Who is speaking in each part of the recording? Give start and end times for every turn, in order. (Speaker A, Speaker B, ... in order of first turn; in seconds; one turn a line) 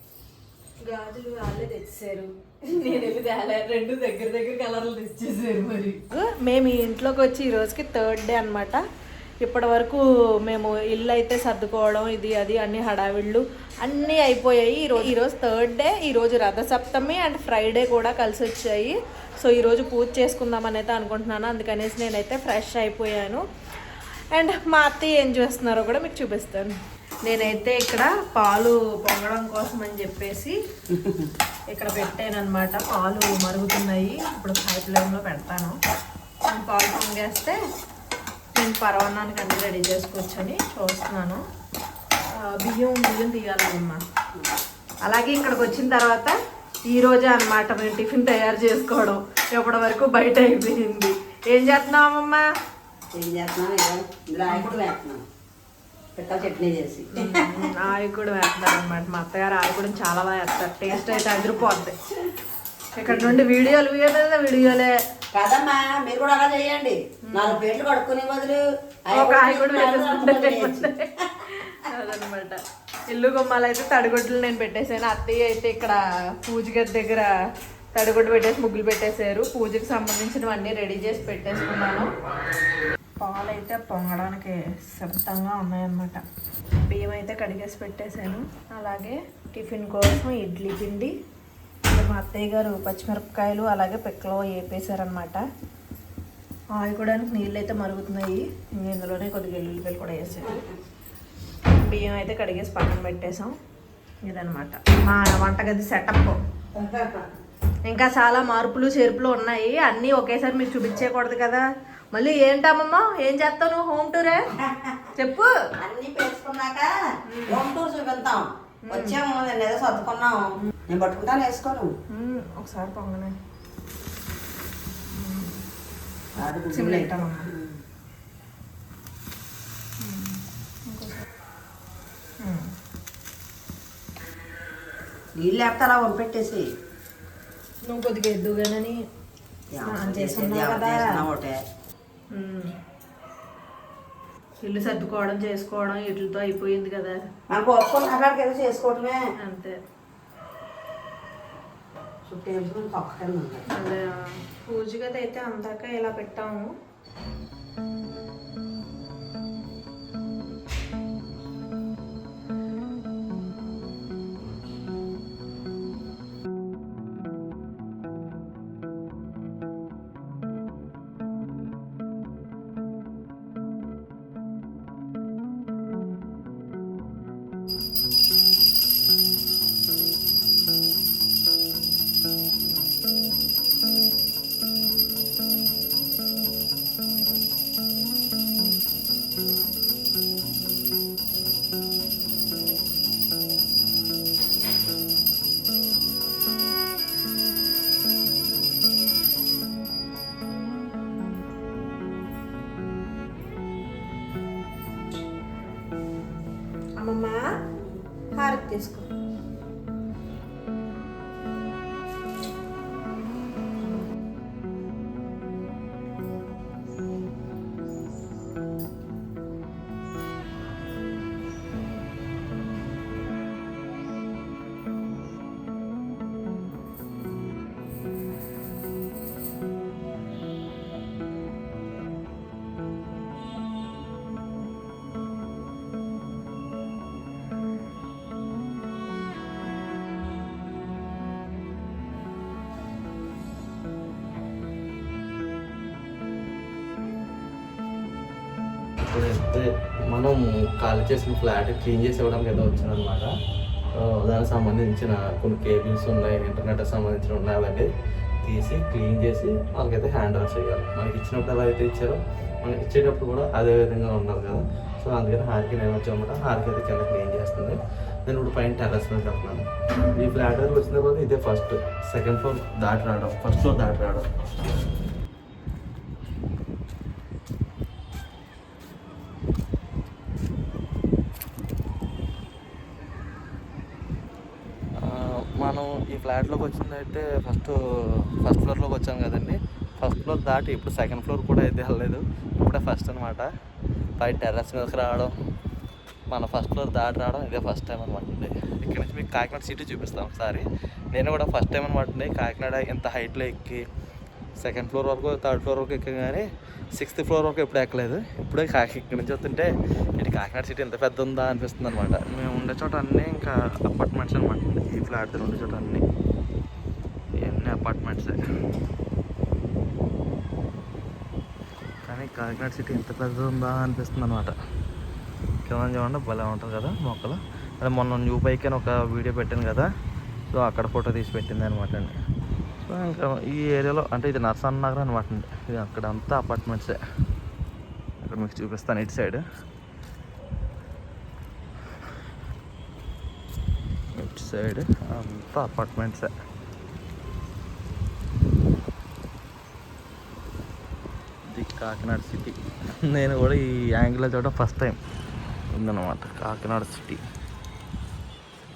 Speaker A: 0.8-8.8
Speaker A: 9.4-23.4
Speaker A: 24.3-26.7
Speaker A: 27.2-30.5
Speaker B: 30.9-31.3
Speaker A: 31.7-35.7
Speaker A: 36.5-37.5
Speaker A: 38.5-41.4
Speaker A: 42.5-44.0
Speaker A: 45.0-46.3
Speaker A: 46.9-52.4
Speaker B: 53.1-55.2
Speaker A: 54.5-54.8
Speaker B: 56.1-57.7
Speaker A: 57.2-61.9
Speaker B: 60.9-61.7
Speaker A: 63.0-64.9
Speaker B: 63.0-63.4
Speaker B: 65.3-70.9
Speaker A: 67.3-67.6
Speaker A: 69.1-77.3
Speaker A: 77.9-82.1
Speaker A: 83.2-86.2
Speaker A: 86.9-91.1
Speaker A: 91.9-95.4
Speaker A: 96.8-100.6
Speaker A: 101.8-103.5
Speaker A: 104.3-106.4
Speaker B: 106.7-107.2
Speaker A: 107.9-114.4
Speaker B: 114.6-115.0
Speaker A: 115.2-115.5
Speaker B: 115.8-121.9
Speaker A: 117.3-117.6
Speaker A: 118.9-119.2
Speaker A: 122.1-123.3
Speaker A: 125.1-125.5
Speaker B: 126.3-127.8
Speaker A: 126.5-127.5
Speaker A: 130.0-131.2
Speaker A: 132.4-132.7
Speaker B: 135.4-136.7
Speaker A: 137.8-138.9
Speaker B: 139.7-141.6
Speaker A: 139.8-141.0
Speaker A: 142.3-142.7
Speaker A: 144.6-147.2
Speaker B: 147.5-149.2
Speaker A: 149.4-149.7
Speaker B: 152.2-153.6
Speaker A: 153.7-156.7
Speaker A: 207.0-207.4
Speaker A: 208.3-209.1
Speaker C: 249.1-253.3
Speaker C: 254.0-257.9
Speaker C: 258.4-274.2
Speaker C: 285.0-287.8
Speaker C: 288.3-293.5
Speaker C: 294.2-295.3
Speaker C: 296.3-303.8
Speaker C: 304.6-306.4
Speaker C: 307.0-316.0
Speaker C: 317.4-318.4
Speaker C: 322.1-324.5
Speaker C: 325.6-329.9
Speaker C: 330.5-332.1
Speaker C: 332.9-337.0
Speaker C: 338.2-339.4
Speaker C: 344.2-346.3
Speaker C: 351.5-354.9
Speaker C: 355.7-357.2